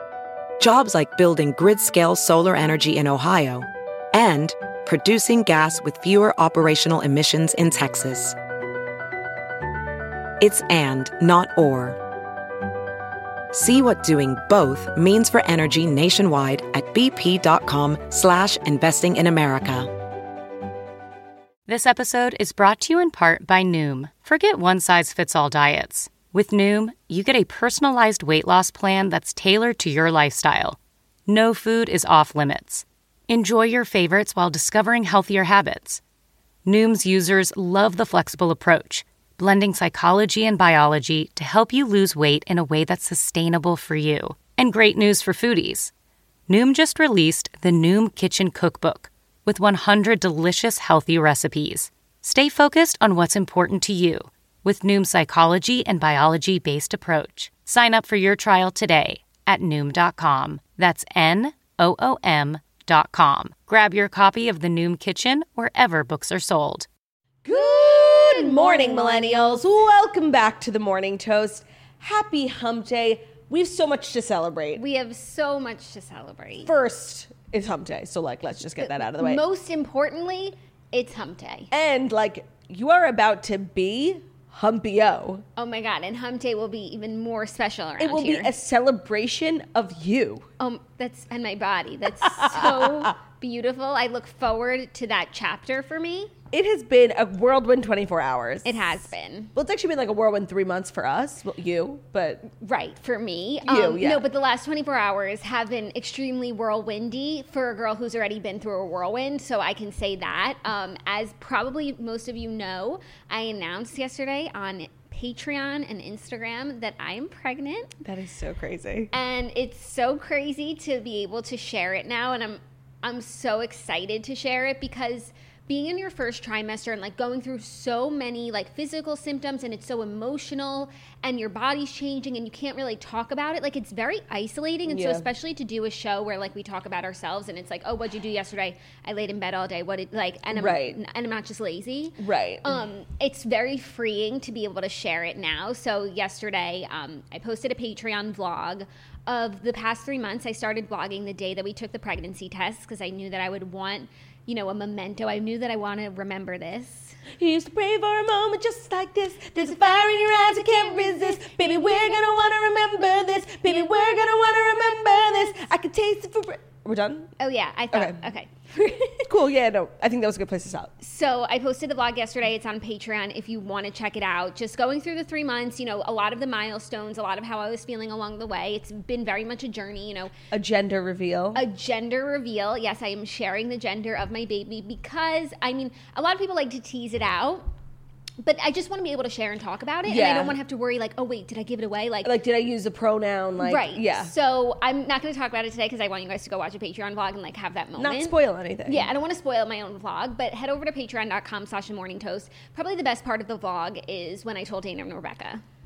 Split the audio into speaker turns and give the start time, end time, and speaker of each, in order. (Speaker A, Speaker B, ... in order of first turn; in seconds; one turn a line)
Speaker A: 0.6-8.4
Speaker A: 10.4-12.0
Speaker A: 13.5-19.9
Speaker B: 21.7-36.0
Speaker B: 36.6-45.9
Speaker B: 46.5-66.9
Speaker C: 67.4-74.8
Speaker D: 67.5-69.6
Speaker D: 74.8-76.7
Speaker C: 76.6-79.4
Speaker D: 79.0-81.7
Speaker C: 81.7-85.5
Speaker D: 85.6-88.5
Speaker C: 88.0-90.5
Speaker D: 90.6-96.3
Speaker C: 92.3-93.1
Speaker C: 96.5-102.5
Speaker D: 98.6-99.5
Speaker D: 102.5-118.0
Speaker C: 103.6-104.2
Speaker C: 118.0-119.1
Speaker D: 119.1-157.2
Speaker C: 134.9-135.3
Speaker C: 140.5-141.0
Speaker C: 142.2-142.8
Speaker C: 157.4-167.3
Speaker D: 160.9-161.7
Speaker D: 167.4-169.3
Speaker C: 167.9-168.2
Speaker C: 169.3-170.9
Speaker D: 171.0-180.3
Speaker C: 180.5-181.6
Speaker D: 181.5-187.7
Speaker D: 188.4-192.3
Speaker C: 190.1-190.6
Speaker C: 192.2-194.3
Speaker D: 193.6-198.3
Speaker C: 198.0-199.1
Speaker D: 198.9-205.6